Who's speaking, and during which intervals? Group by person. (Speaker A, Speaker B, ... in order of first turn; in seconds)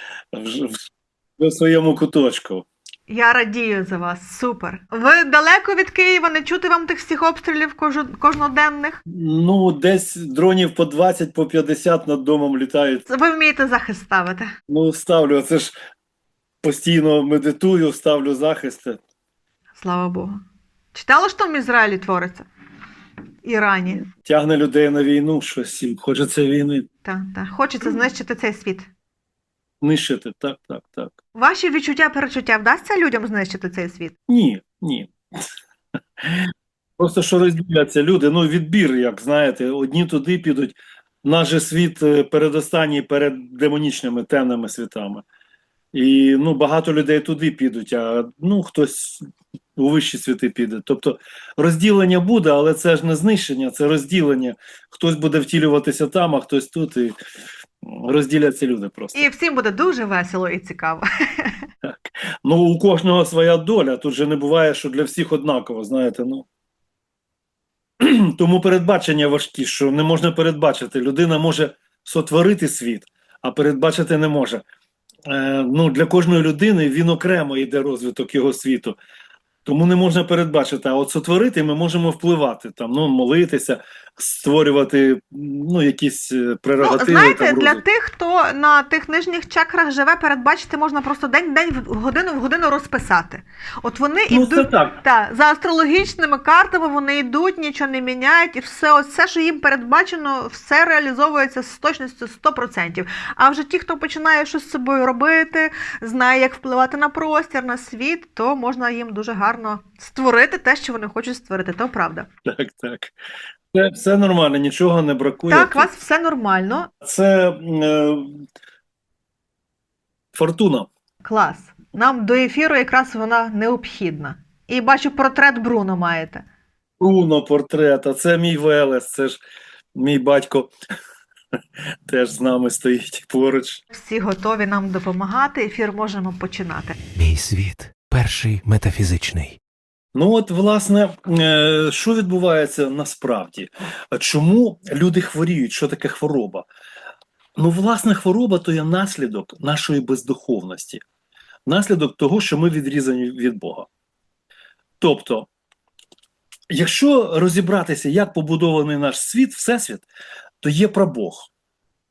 Speaker A: 0.3-0.8, 1.4-2.7, 9.1-13.1, 14.7-15.7, 16.6-19.0, 24.1-26.9, 29.8-31.1, 34.3-35.1, 36.2-45.2, 45.9-57.1, 57.8-59.3, 61.8-66.5, 68.0-74.6, 75.2-79.0, 79.6-87.8, 94.3-95.0, 112.5-113.1, 113.7-115.9, 117.0-118.4, 120.3-120.9, 127.0-129.4, 129.9-130.7, 132.1-133.8, 140.1-146.7, 147.6-151.0, 151.7-153.9, 155.0-155.5, 156.7-160.0, 160.6-161.5
Speaker B: 3.1-9.0, 13.1-14.5, 19.8-20.4, 20.9-22.5, 23.4-24.0, 27.0-28.9, 31.3-34.1, 59.1-61.6, 86.8-112.3, 115.5-116.9, 121.2-126.4, 133.9-137.0
Speaker C: 137.1-139.6